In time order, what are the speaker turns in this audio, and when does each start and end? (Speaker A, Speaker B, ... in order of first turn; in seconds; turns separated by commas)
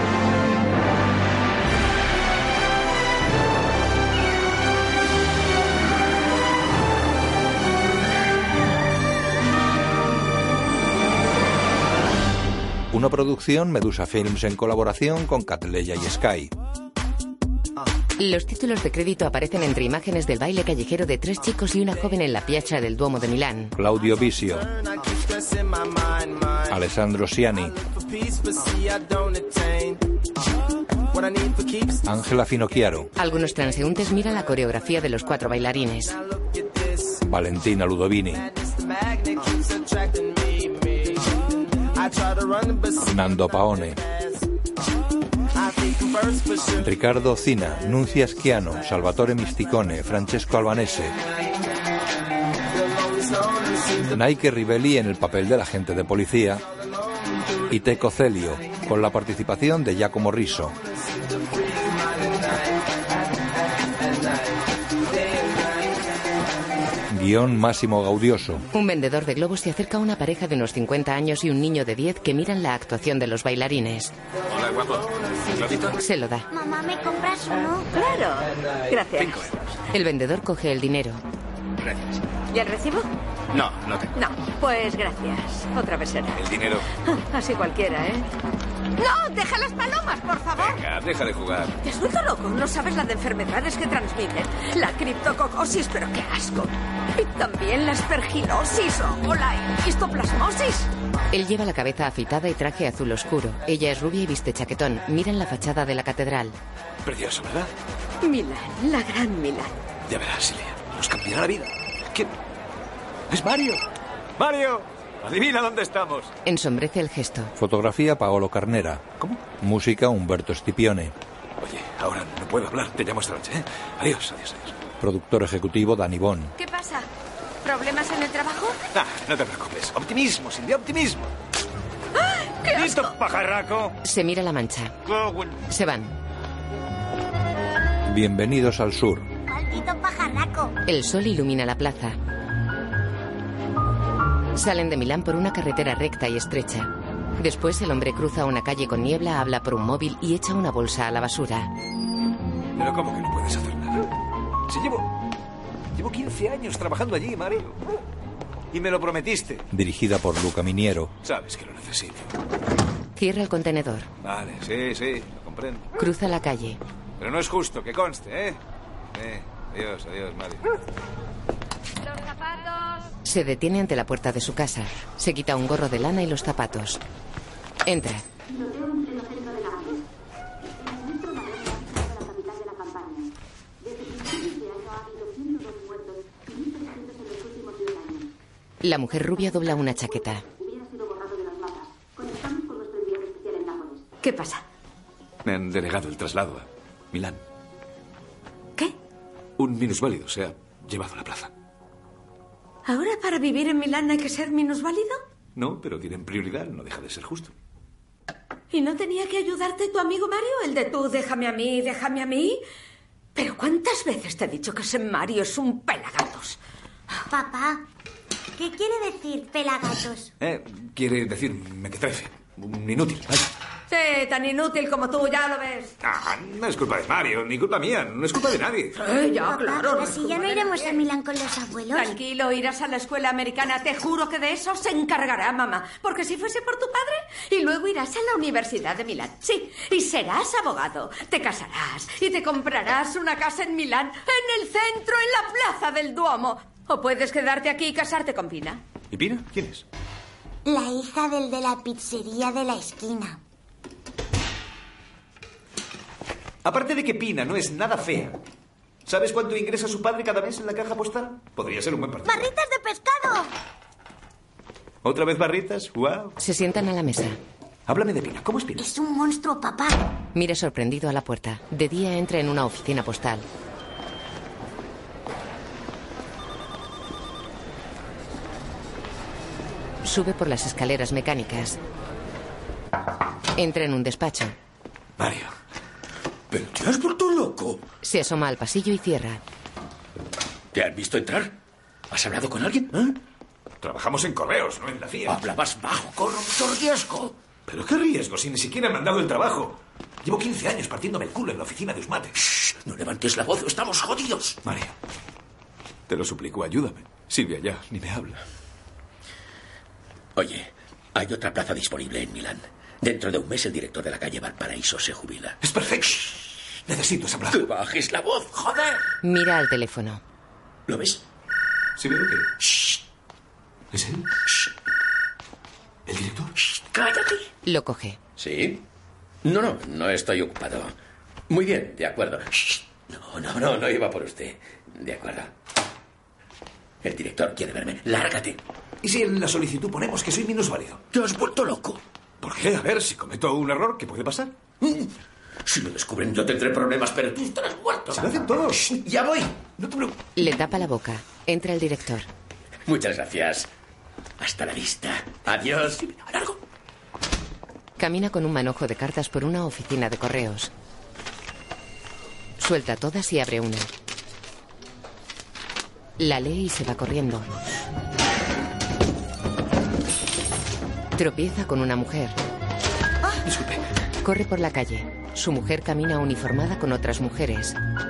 Speaker A: 12.9-16.5, Speaker B: 18.2-23.8, Speaker A: 23.8-24.7, Speaker A: 26.7-27.8, Speaker A: 32.0-33.1, Speaker B: 33.2-36.2, Speaker A: 37.2-38.5, Speaker A: 43.0-44.0, Speaker A: 46.8-51.1, Speaker A: 54.1-56.6, Speaker A: 57.7-60.8, Speaker A: 67.1-68.7, Speaker B: 68.7-74.1, Speaker B: 76.0-76.5, Speaker C: 76.5-77.9, Speaker D: 77.9-79.5, Speaker B: 79.9-81.2, Speaker D: 82.5-83.1, Speaker D: 84.1-86.4, Speaker E: 86.4-86.9, Speaker D: 87.0-88.3, Speaker D: 89.0-90.8, Speaker E: 90.6-91.8, Speaker D: 91.8-100.9, Speaker B: 101.3-106.5, Speaker E: 107.0-107.7, Speaker D: 108.2-109.8, Speaker E: 110.1-112.3, Speaker E: 113.3-113.8, Speaker E: 114.4-116.3, Speaker B: 116.5-117.5, Speaker A: 117.6-119.1, Speaker A: 119.6-121.2, Speaker E: 121.6-124.8, Speaker A: 125.0-126.5, Speaker D: 126.6-127.1, Speaker D: 127.6-128.8, Speaker E: 128.9-131.3, Speaker D: 132.2-133.2, Speaker E: 132.7-133.9, Speaker B: 134.0-134.9, Speaker B: 135.7-136.1, Speaker A: 138.1-139.3, Speaker C: 139.5-140.7, Speaker B: 140.9-142.2, Speaker B: 144.6-151.7, Speaker E: 152.8-154.1, Speaker E: 154.7-155.1, Speaker E: 155.9-157.8, Speaker E: 158.7-159.6, Speaker A: 159.7-161.1, Speaker E: 161.2-162.3, Speaker B: 163.2-164.1, Speaker E: 164.2-165.9, Speaker B: 166.0-166.8, Speaker E: 167.2-168.6, Speaker E: 169.2-170.6, Speaker B: 173.2-177.0, Speaker B: 177.9-178.2, Speaker B: 188.8-190.4, Speaker D: 194.2-194.6, Speaker E: 195.4-197.4, Speaker E: 199.6-201.5, Speaker D: 202.9-205.2, Speaker E: 205.6-207.5, Speaker D: 208.7-212.6, Speaker D: 213.3-216.6, Speaker C: 217.3-217.8, Speaker C: 218.6-220.3, Speaker E: 220.4-223.5, Speaker D: 223.9-225.9, Speaker E: 226.0-229.0, Speaker D: 229.0-231.0, Speaker C: 229.3-232.2, Speaker D: 231.9-248.8, Speaker E: 249.1-249.8, Speaker C: 250.7-253.4, Speaker E: 256.6-258.4, Speaker E: 259.1-262.4, Speaker C: 262.3-263.5, Speaker E: 265.0-266.4, Speaker B: 266.4-267.4, Speaker E: 267.9-268.9, Speaker C: 268.8-270.0, Speaker B: 270.4-273.5, Speaker B: 280.0-281.8, Speaker B: 283.6-284.6, Speaker E: 285.2-285.5, Speaker F: 286.5-287.8, Speaker B: 288.0-289.4, Speaker F: 290.7-291.6, Speaker F: 292.1-293.1, Speaker E: 293.8-295.4, Speaker F: 295.3-297.4, Speaker E: 297.7-302.4, Speaker F: 302.4-304.6, Speaker E: 304.6-304.9, Speaker E: 306.1-308.4, Speaker F: 310.4-315.6, Speaker E: 315.6-317.6, Speaker F: 317.5-319.0, Speaker B: 319.2-320.2, Speaker F: 320.9-321.2, Speaker E: 322.0-322.5, Speaker E: 323.9-324.3, Speaker E: 326.1-326.6, Speaker F: 326.8-327.5, Speaker B: 327.6-328.2, Speaker F: 328.4-328.8, Speaker F: 329.4-330.9, Speaker F: 331.5-335.5, Speaker F: 337.0-338.6, Speaker E: 339.0-341.0, Speaker F: 341.1-342.0, Speaker E: 342.4-344.5, Speaker F: 344.8-345.1, Speaker F: 345.7-349.6, Speaker E: 348.1-349.0, Speaker E: 349.7-350.2, Speaker B: 350.4-352.3, Speaker F: 352.9-353.7, Speaker F: 354.4-356.6, Speaker B: 358.0-360.7, Speaker B: 362.6-363.9, Speaker B: 366.2-367.5, Speaker B: 371.1-372.4, Speaker E: 373.4-373.8, Speaker B: 374.2-377.8